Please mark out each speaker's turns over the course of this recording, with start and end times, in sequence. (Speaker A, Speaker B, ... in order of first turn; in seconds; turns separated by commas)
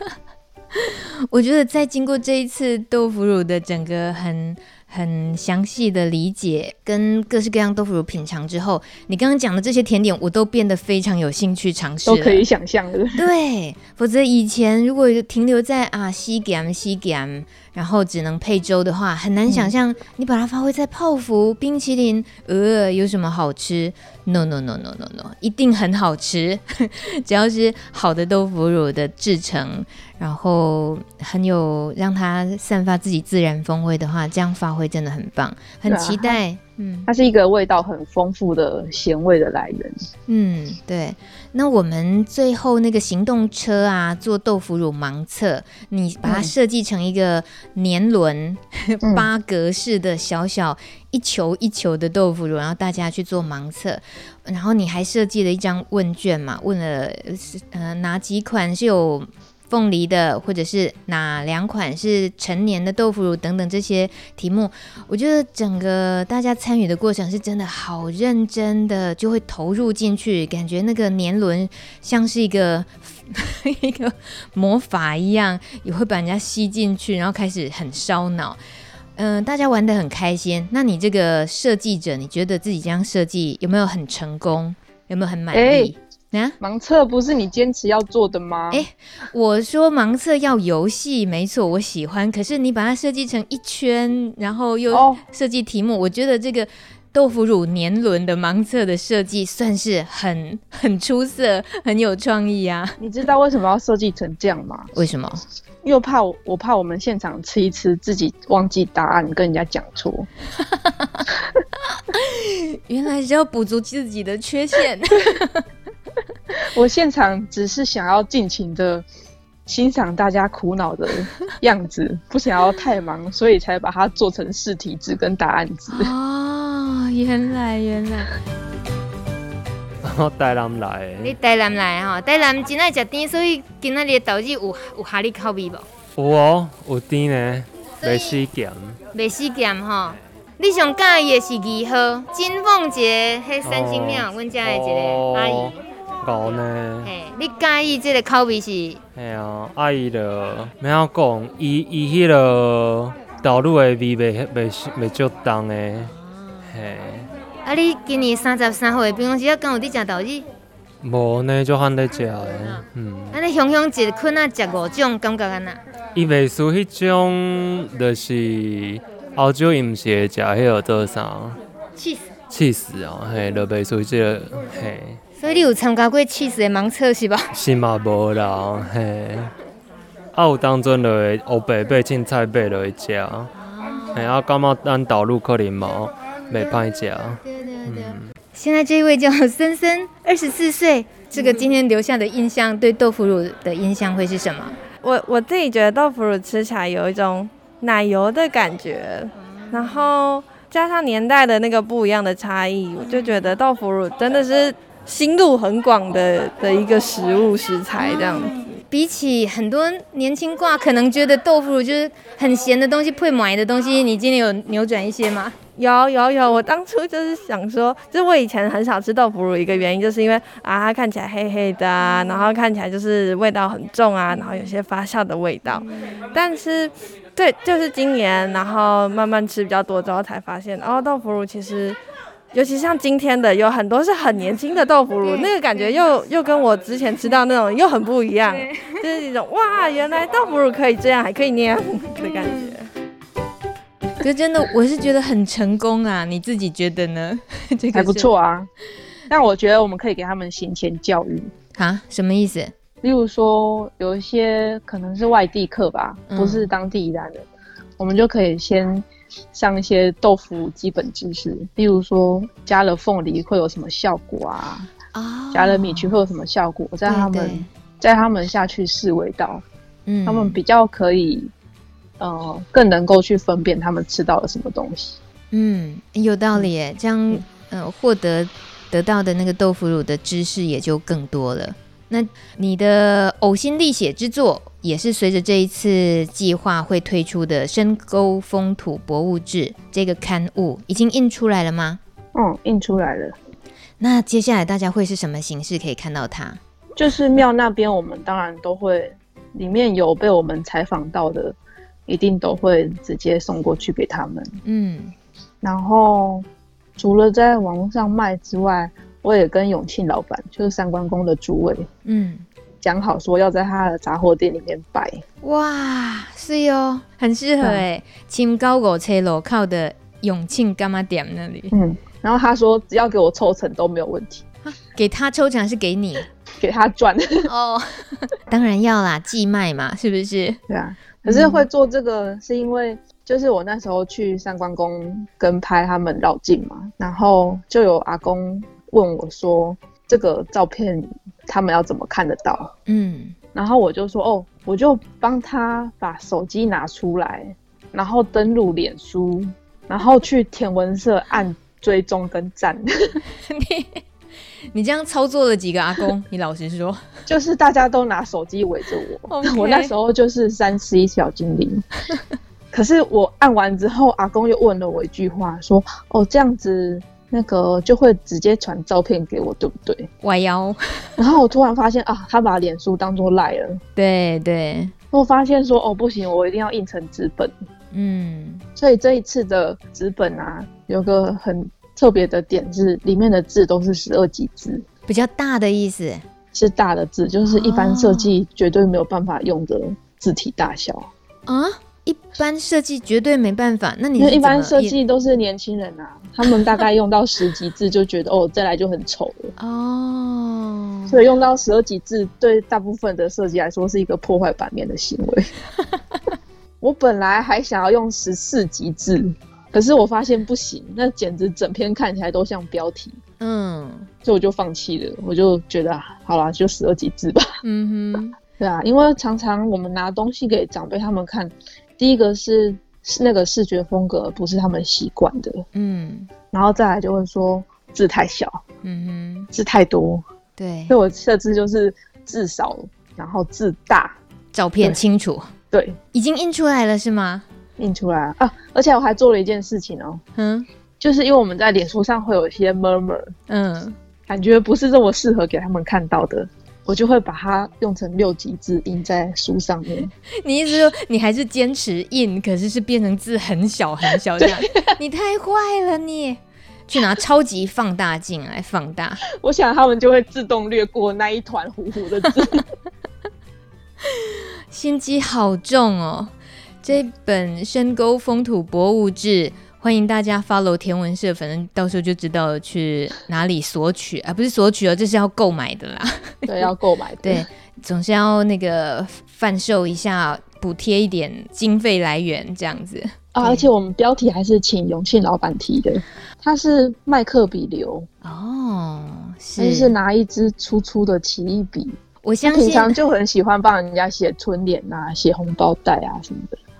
Speaker A: 0.8-12.4, Speaker B: 12.1-13.2, Speaker A: 13.2-37.1, Speaker B: 35.9-36.4, Speaker B: 37.1-39.9, Speaker A: 40.3-78.6, Speaker B: 46.2-46.5, Speaker B: 49.0-49.3, Speaker A: 79.2-86.5, Speaker B: 85.5-85.9, Speaker B: 86.6-88.8, Speaker A: 88.7-103.0, Speaker B: 94.9-95.2, Speaker B: 103.0-104.9, Speaker A: 104.9-105.4, Speaker B: 105.8-110.3, Speaker A: 112.1-115.6, Speaker B: 116.7-119.0, Speaker B: 119.7-126.1, Speaker A: 125.9-128.3, Speaker C: 130.0-131.3, Speaker D: 131.2-135.8, Speaker C: 136.2-139.0, Speaker D: 138.0-138.4, Speaker D: 139.1-145.7, Speaker C: 143.6-147.1, Speaker D: 147.0-149.0, Speaker C: 149.2-157.3, Speaker D: 156.0-156.6, Speaker D: 157.6-160.4, Speaker C: 161.0-163.4, Speaker D: 163.3-165.8, Speaker C: 166.1-171.6, Speaker D: 172.0-172.3, Speaker C: 172.5-175.2, Speaker D: 175.3-177.5, Speaker C: 177.5-179.5, Speaker C: 180.3-183.5, Speaker D: 183.7-184.2, Speaker C: 184.1-188.3, Speaker D: 187.4-189.2, Speaker A: 189.0-194.8, Speaker D: 191.4-191.7, Speaker E: 195.0-208.6, Speaker D: 199.7-200.1, Speaker D: 203.1-203.6, Speaker D: 208.2-208.6, Speaker A: 208.9-213.1, Speaker D: 210.6-210.9, Speaker D: 211.5-215.5, Speaker A: 214.2-214.9, Speaker E: 215.8-232.0, Speaker D: 222.0-222.4, Speaker D: 224.3-224.7, Speaker E: 232.5-242.8, Speaker D: 235.2-235.5, Speaker D: 238.5-238.9, Speaker A: 244.2-248.3, Speaker B: 247.9-248.7, Speaker B: 249.3-251.5, Speaker A: 251.7-252.7, Speaker B: 253.0-257.4, Speaker A: 256.3-256.7, Speaker B: 258.0-264.9, Speaker A: 265.1-266.1, Speaker B: 265.5-269.6, Speaker A: 267.1-267.7, Speaker A: 270.1-270.6, Speaker B: 270.2-271.5, Speaker B: 272.2-275.2, Speaker A: 275.5-292.0, Speaker B: 292.3-293.4, Speaker A: 294.0-296.6, Speaker B: 297.0-301.6, Speaker B: 302.1-304.6, Speaker A: 304.6-305.1, Speaker B: 305.6-306.4, Speaker B: 307.0-311.9, Speaker A: 312.0-312.4, Speaker B: 312.8-315.2, Speaker A: 315.4-321.7, Speaker B: 321.7-324.4, Speaker A: 324.6-326.3, Speaker B: 326.6-327.5, Speaker A: 327.5-330.6, Speaker B: 330.7-342.7, Speaker A: 331.2-331.6, Speaker A: 342.9-343.4, Speaker B: 343.5-353.2, Speaker A: 353.5-354.0, Speaker A: 354.7-357.1, Speaker B: 357.3-361.8, Speaker A: 359.3-359.9, Speaker B: 362.7-370.1, Speaker A: 370.2-371.1, Speaker B: 371.2-373.8, Speaker A: 373.9-374.9, Speaker B: 375.1-377.5, Speaker A: 377.9-378.6, Speaker B: 378.8-384.8, Speaker A: 385.1-386.2, Speaker B: 386.5-391.1, Speaker A: 387.4-388.4, Speaker A: 391.5-395.0, Speaker B: 394.2-399.5, Speaker A: 399.6-401.2, Speaker B: 401.1-405.5, Speaker B: 406.8-413.2, Speaker A: 413.4-414.1, Speaker B: 414.2-417.6, Speaker A: 417.6-418.3, Speaker B: 418.6-425.6, Speaker A: 425.7-426.3, Speaker B: 426.5-428.6, Speaker A: 428.8-429.5, Speaker B: 429.5-430.2, Speaker A: 430.6-430.9, Speaker B: 430.9-434.2, Speaker A: 434.5-435.5, Speaker B: 435.7-436.0, Speaker A: 436.1-437.4, Speaker B: 437.8-440.2, Speaker A: 440.4-440.6, Speaker B: 441.0-443.3, Speaker A: 443.5-443.9, Speaker B: 444.3-450.1, Speaker A: 450.4-459.2, Speaker B: 454.4-454.8, Speaker B: 459.4-462.6, Speaker A: 464.0-466.3, Speaker A: 466.8-476.7, Speaker B: 476.4-477.5, Speaker A: 477.2-483.7, Speaker B: 483.3-488.1, Speaker A: 488.2-489.9, Speaker B: 489.6-496.6, Speaker A: 492.2-492.9